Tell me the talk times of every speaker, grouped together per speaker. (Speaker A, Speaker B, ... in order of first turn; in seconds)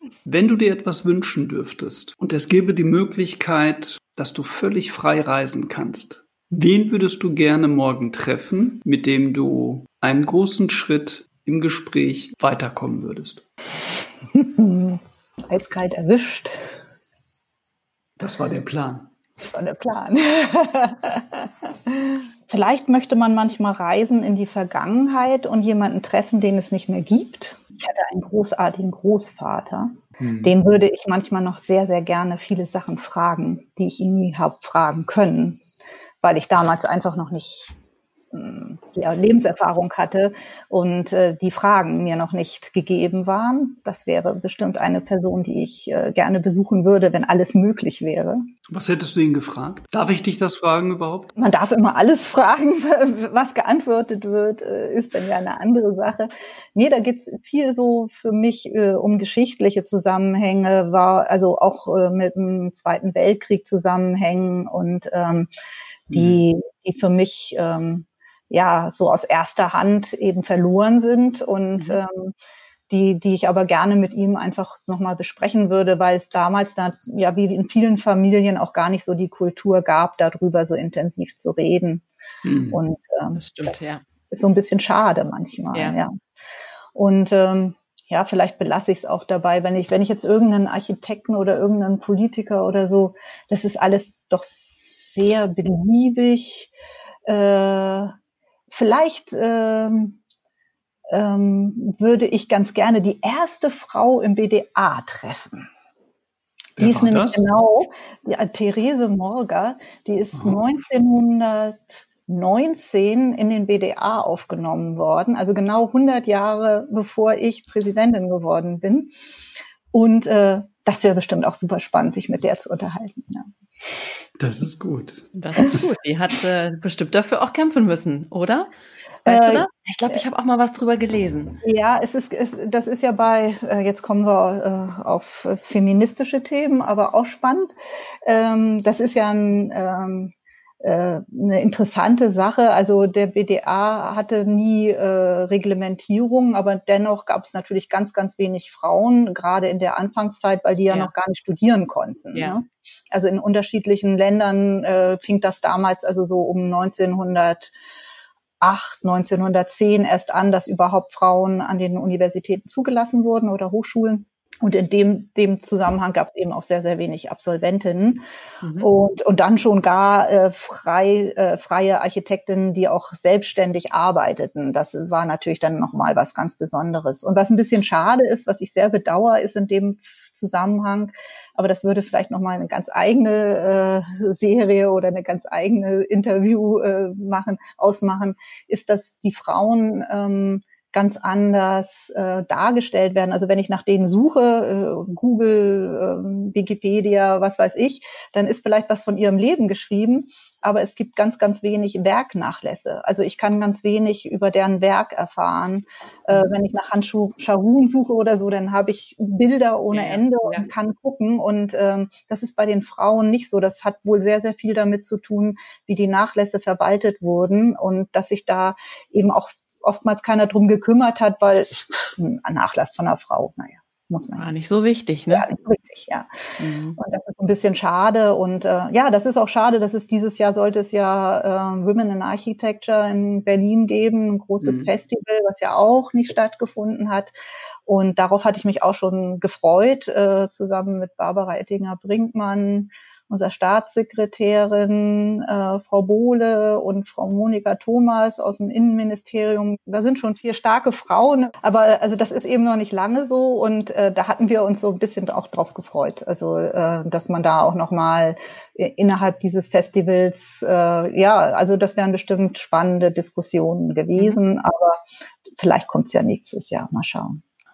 Speaker A: 0.2-13.4, 18.2-19.1, 30.2-30.5, 48.7-51.3, 66.1-66.4, 82.4-82.8, 106.8-107.5, 110.3-110.6, 124.4-125.3, 234.6-234.9
Speaker B: 14.3-16.7, 19.4-35.6, 36.2-37.7, 38.3-48.5, 51.4-65.5, 66.1-72.3, 72.9-82.0, 82.7-86.1, 86.9-96.7, 97.2-98.1, 98.7-100.2, 101.1-105.7, 106.8-119.1, 119.9-123.5, 129.2-130.2, 131.6-137.7, 138.2-157.7, 158.6-168.2, 168.8-224.5, 225.3-226.3, 227.0-237.3, 237.8-265.0, 265.6-267.4
Speaker C: 83.4-84.0, 125.3-128.7, 129.2-131.6, 168.6-168.9, 209.9-210.7, 224.4-225.5, 226.6-227.0